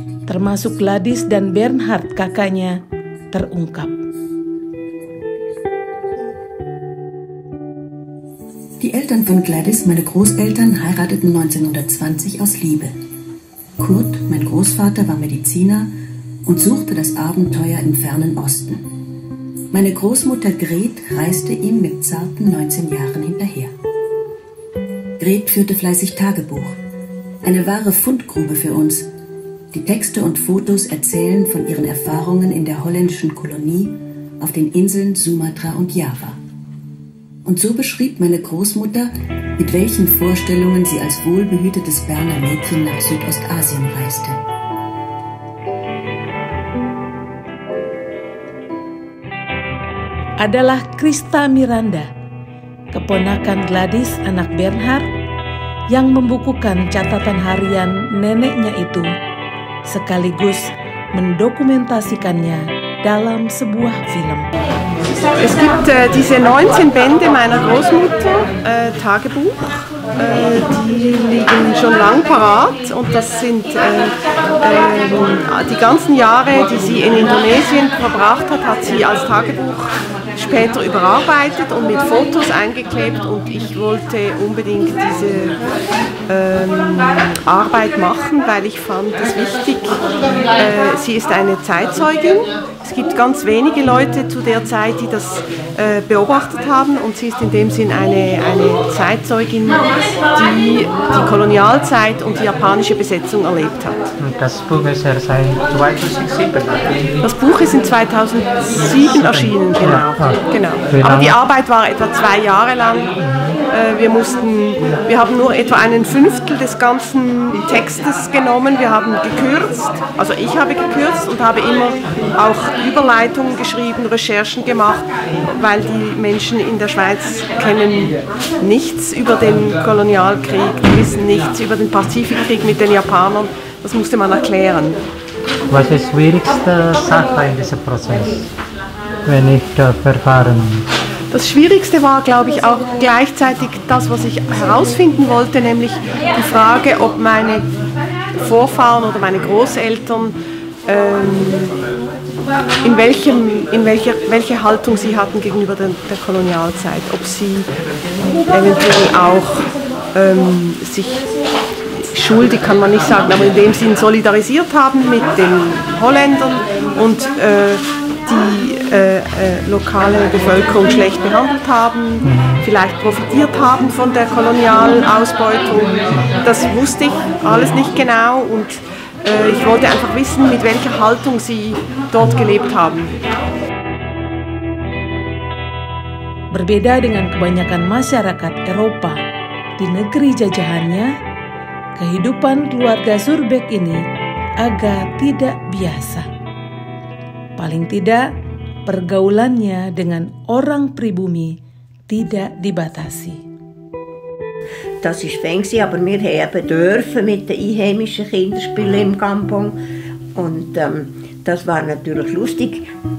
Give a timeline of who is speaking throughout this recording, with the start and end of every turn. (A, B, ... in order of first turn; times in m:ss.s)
0:00.2-0:02.8 A
0:03.3-0:03.9 A
0:08.8-0:12.9 B
0:13.8-0:15.9 B
0:16.4-0:18.9 B
0:19.7-0:23.7 B
0:25.2-0:26.8 B
0:27.4-0:29.1 B
0:29.7-0:36.4 B
0:37.4-0:44.4 B
0:50.4-0:52.1 A
0:52.9-0:55.0 A
0:55.9-0:59.1 A
0:59.8-1:04.5 A
1:05.4-1:25.6 C
1:26.3-1:44.0 C
1:44.2-1:47.3 D
1:47.2-1:53.1 C
1:49.0-1:51.4 D
1:53.2-1:53.6 D
1:53.7-2:15.0 C
2:15.7-2:18.5 D
2:19.2-2:20.9 D
2:21.3-2:27.7 C
2:28.3-2:31.8 C
2:32.8-2:37.7 C
2:38.5-2:41.3 C
2:41.9-3:03.1 C
2:52.2-2:52.6 D
3:06.5-3:09.2 A
3:09.8-3:11.1 A
3:12.0-3:14.0 A
3:14.6-3:16.2 A
3:17.6-3:18.2 A
3:18.9-3:21.5 A
3:22.1-3:23.4 A
3:25.0-3:29.8 E
3:30.4-3:32.8 E